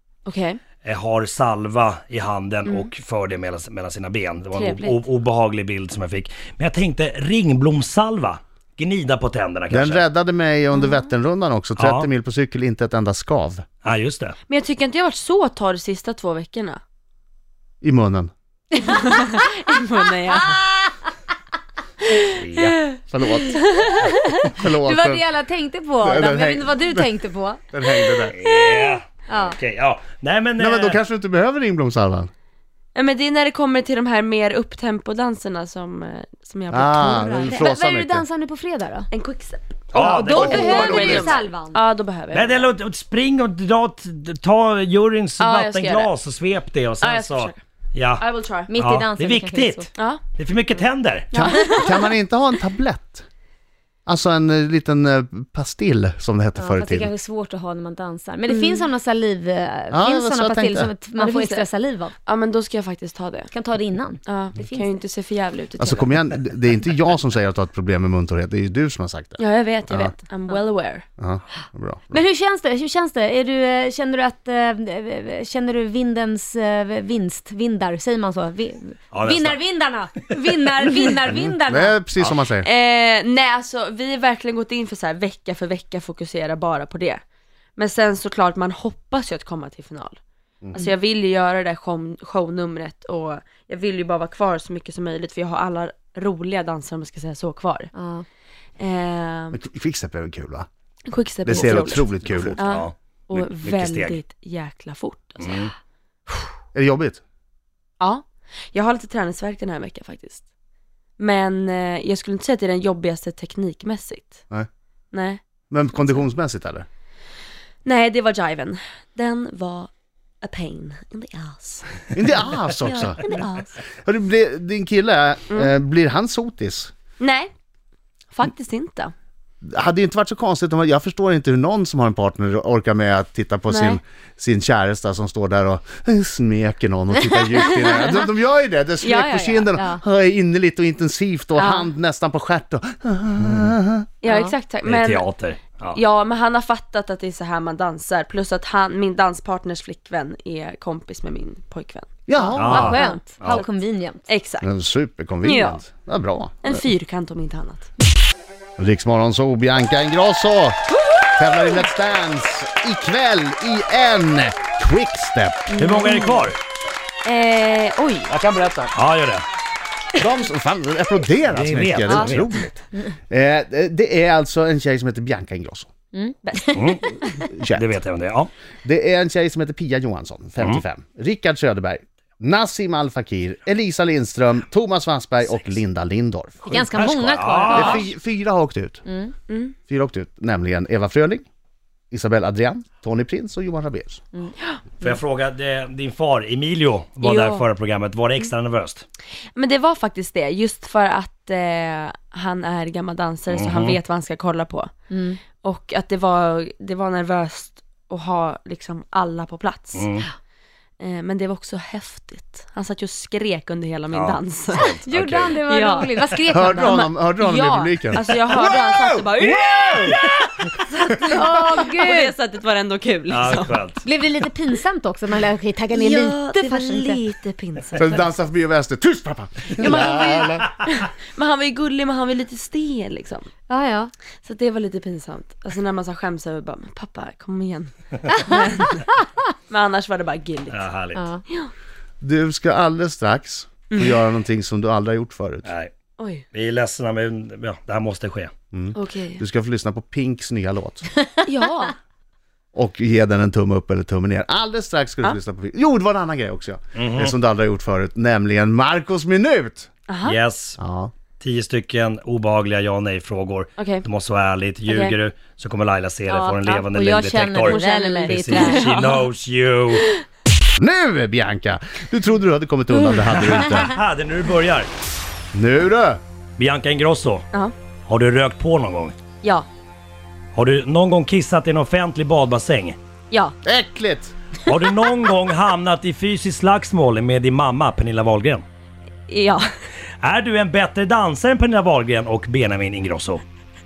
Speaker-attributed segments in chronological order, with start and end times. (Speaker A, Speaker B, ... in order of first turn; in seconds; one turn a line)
Speaker A: 0.3-0.6
Speaker B: 0.8-10.1
Speaker A: 4.5-5.0
Speaker C: 9.7-13.7
Speaker B: 11.8-12.1
Speaker B: 13.8-14.4
Speaker A: 14.5-16.8
Speaker C: 17.8-18.3
Speaker A: 18.8-20.6
Speaker A: 22.0-24.6
Speaker B: 22.4-22.9
Speaker C: 23.1-23.6
Speaker C: 24.5-25.2
Speaker D: 24.7-27.6
Speaker C: 26.0-27.1
Speaker C: 27.7-28.4
Speaker B: 28.3-31.0
Speaker A: 28.4-29.0
Speaker D: 29.3-29.6
Speaker C: 30.6-32.3
Speaker A: 33.0-37.8
Speaker C: 36.7-38.3
Speaker D: 37.1-39.1
Speaker A: 39.1-42.7
Speaker B: 39.9-40.8
Speaker D: 40.0-41.8
Speaker C: 40.2-41.4
Speaker B: 42.3-51.3
Speaker A: 45.4-46.1
Speaker A: 47.0-47.6
Speaker A: 48.2-48.7
Speaker D: 48.7-49.9
Speaker A: 51.3-52.1
Speaker C: 51.3-53.3
Speaker C: 54.1-57.1
Speaker D: 56.6-62.1
Speaker A: 58.5-58.8
Speaker C: 59.9-60.9
Speaker A: 61.2-61.6
Speaker A: 62.3-63.5
Speaker D: 63.5-65.0
Speaker A: 64.3-66.1
Speaker C: 65.8-70.1
Speaker A: 69.4-71.0
Speaker C: 71.2-72.2
Speaker D: 72.1-82.0
Speaker B: 79.1-79.6
Speaker C: 81.6-82.7
Speaker A: 82.6-87.2
Speaker A: 87.8-90.2
Speaker A: 90.7-97.9
Speaker D: 98.0-98.2
Speaker A: 98.8-99.6
Speaker C: 99.5-100.7
Speaker A: 101.1-102.1
Speaker C: 101.5-102.6
Speaker B: 101.5-104.2
Speaker A: 102.6-105.7
Speaker B: 105.4-105.7
Speaker C: 106.7-107.2
Speaker A: 108.0-110.4
Speaker A: 111.2-114.4
Speaker A: 115.1-115.4
Speaker C: 115.7-116.9
Speaker A: 117.8-119.9
Speaker A: 120.4-123.8
Speaker C: 122.1-123.2
Speaker C: 124.0-126.9
Speaker A: 127.2-127.5
Speaker A: 128.3-129.1
Speaker C: 129.6-144.1
Speaker A: 133.7-134.0
Speaker D: 137.3-137.7
Speaker A: 139.0-139.8
Speaker D: 139.8-140.0
Speaker A: 141.6-141.9
Speaker B: 143.4-143.7
Speaker A: 144.2-145.3
Speaker D: 144.2-144.5
Speaker B: 144.8-146.0
Speaker A: 145.9-152.1
Speaker C: 152.3-153.0
Speaker D: 152.4-154.3
Speaker B: 152.6-153.6
Speaker A: 152.8-153.7
Speaker A: 154.3-154.7
Speaker C: 154.6-156.8
Speaker A: 155.4-155.8
Speaker A: 156.6-157.9
Speaker C: 158.8-160.8
Speaker A: 160.9-161.3
Speaker C: 161.4-165.8
Speaker D: 165.7-166.0
Speaker B: 165.8-166.6
Speaker A: 165.8-166.5
Speaker A: 167.2-168.3
Speaker C: 168.3-168.9
Speaker B: 168.9-169.5
Speaker C: 170.2-172.8
Speaker B: 171.5-172.7
Speaker C: 173.3-175.9
Speaker D: 176.1-177.4
Speaker A: 176.4-177.4
Speaker B: 176.8-177.1
Speaker C: 177.5-177.9
Speaker B: 177.7-178.5
Speaker C: 178.8-187.1
Speaker D: 186.7-188.1
Speaker B: 186.9-188.0
Speaker C: 187.7-189.0
Speaker D: 189.1-189.3
Speaker A: 189.5-189.8
Speaker C: 189.9-191.4
Speaker C: 192.1-194.2
Speaker B: 195.0-199.1
Speaker A: 197.2-197.6
Speaker A: 199.6-204.9
Speaker B: 203.5-204.0
Speaker D: 205.1-205.4
Speaker A: 205.5-210.1
Speaker B: 209.9-210.3
Speaker A: 211.0-214.9
Speaker B: 214.1-215.6
Speaker D: 215.1-217.1
Speaker A: 215.7-216.1
Speaker B: 216.3-216.7
Speaker C: 216.5-220.1
Speaker A: 216.8-223.8
Speaker D: 221.2-222.3
Speaker B: 223.3-224.0
Speaker D: 224.0-227.2
Speaker A: 225.9-228.2
Speaker C: 228.0-230.7
Speaker A: 229.8-233.5
Speaker D: 233.7-234.1
Speaker A: 234.4-239.0
Speaker A: 239.7-240.9
Speaker B: 240.7-241.2
Speaker D: 241.2-241.4
Speaker C: 242.2-245.7
Speaker A: 243.9-244.3
Speaker B: 245.7-245.9
Speaker A: 246.2-246.4
Speaker B: 246.5-248.5
Speaker C: 248.7-251.1
Speaker A: 248.9-249.4
Speaker A: 251.4-252.0
Speaker C: 252.7-259.9
Speaker B: 256.9-257.4
Speaker A: 260.1-260.4
Speaker B: 260.2-260.8
Speaker C: 260.8-261.1
Speaker B: 261.4-270.1
Speaker A: 263.8-264.1
Speaker A: 264.9-265.1
Speaker D: 266.3-269.1
Speaker A: 267.6-269.2
Speaker C: 270.8-273.9
Speaker B: 273.3-274.9
Speaker C: 275.5-276.2
Speaker B: 276.6-277.5
Speaker B: 278.1-279.1
Speaker B: 280.6-283.0
Speaker C: 283.6-284.3
Speaker B: 284.7-288.6
Speaker A: 289.3-289.7
Speaker B: 290.2-293.4